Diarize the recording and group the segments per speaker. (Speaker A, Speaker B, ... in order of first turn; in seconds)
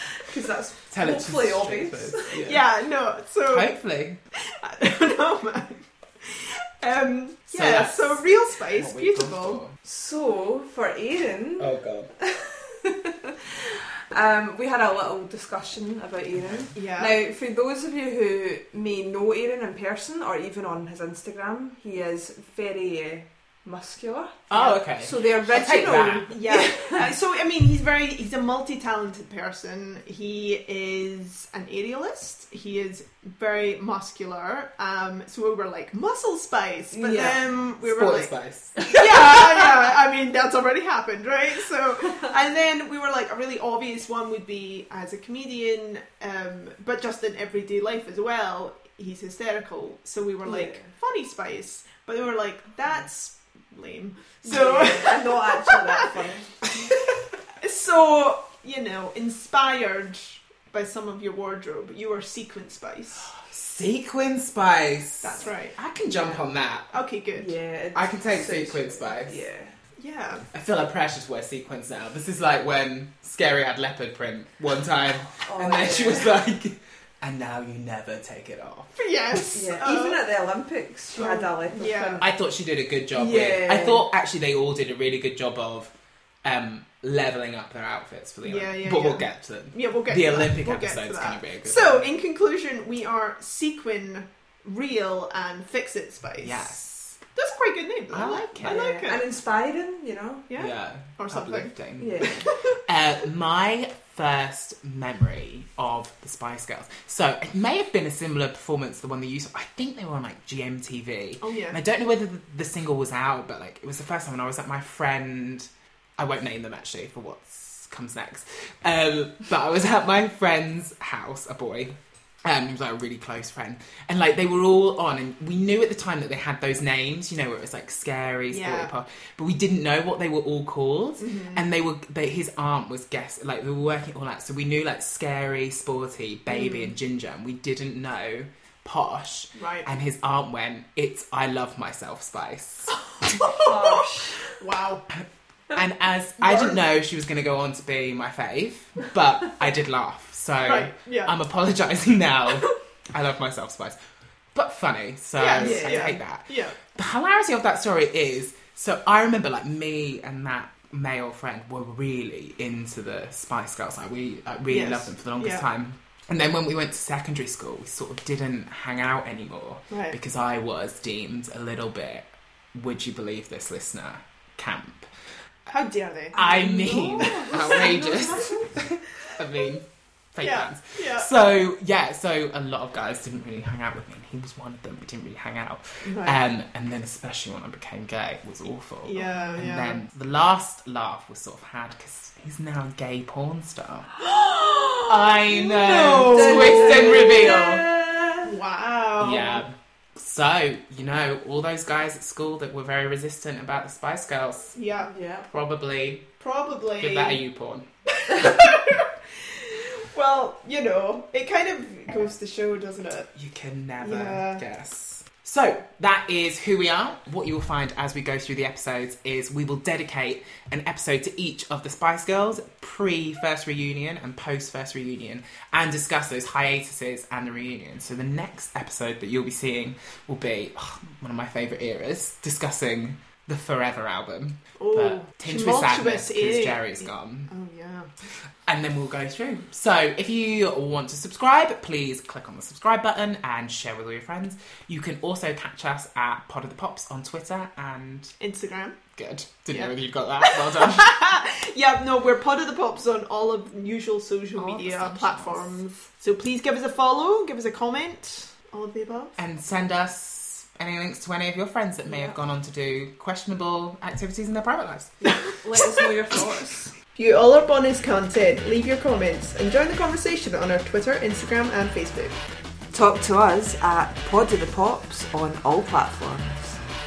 Speaker A: 0.2-2.5, 9.8-27.1, 36.9-37.4, 38.8-39.6, 50.4-50.9, 54.4-56.8, 66.2-66.4, 67.3-69.7, 75.4-76.4, 79.5-82.3, 83.1-84.0, 98.6-100.5, 102.0-102.5, 143.4-144.5, 155.6-156.1, 177.2-178.2, 196.1-198.5, 205.0-205.5, 254.8-255.6, 262.1-262.3, 265.2-266.9, 272.9-276.8
Speaker B: 0.9-2.7, 3.5-4.2, 7.5-9.7, 11.6-12.1, 16.3-16.7, 24.5-26.3, 37.8-38.8, 63.4-66.9, 67.9-69.4, 70.5-79.0, 82.2-85.9, 86.4-92.1, 96.4-97.2, 98.1-98.8, 100.5-102.3, 102.8-143.0, 145.7-154.0, 154.5-175.1, 176.3-194.2, 195.1-197.9, 199.2-204.8, 205.5-206.3, 207.0-207.8, 213.3-237.5, 238.7-248.3, 249.1-251.2, 254.6-255.7, 259.4-265.2
Speaker C: 2.4-3.7, 4.3-9.6, 16.7-17.2, 26.2-38.3, 38.9-56.2, 57.6-63.3, 65.2-65.8, 66.9-67.5, 70.0-70.5, 79.0-80.2, 81.1-82.2, 88.4-99.2, 100.5-102.8, 111.4-111.8, 128.5-128.9, 131.2-131.6, 136.5-136.9, 139.5-139.9, 143.3-143.8, 144.6-145.0, 146.4-146.8, 150.6-151.3, 155.3-156.8, 164.7-165.7, 169.9-170.2, 175.7-178.5, 180.4-181.3, 186.0-186.4, 189.0-190.0, 194.2-197.2, 198.4-199.6, 204.7-205.1, 206.4-207.4, 208.2-213.3, 214.0-214.6, 234.8-238.1, 248.4-249.0, 250.4-259.4, 265.2-265.6, 267.1-272.4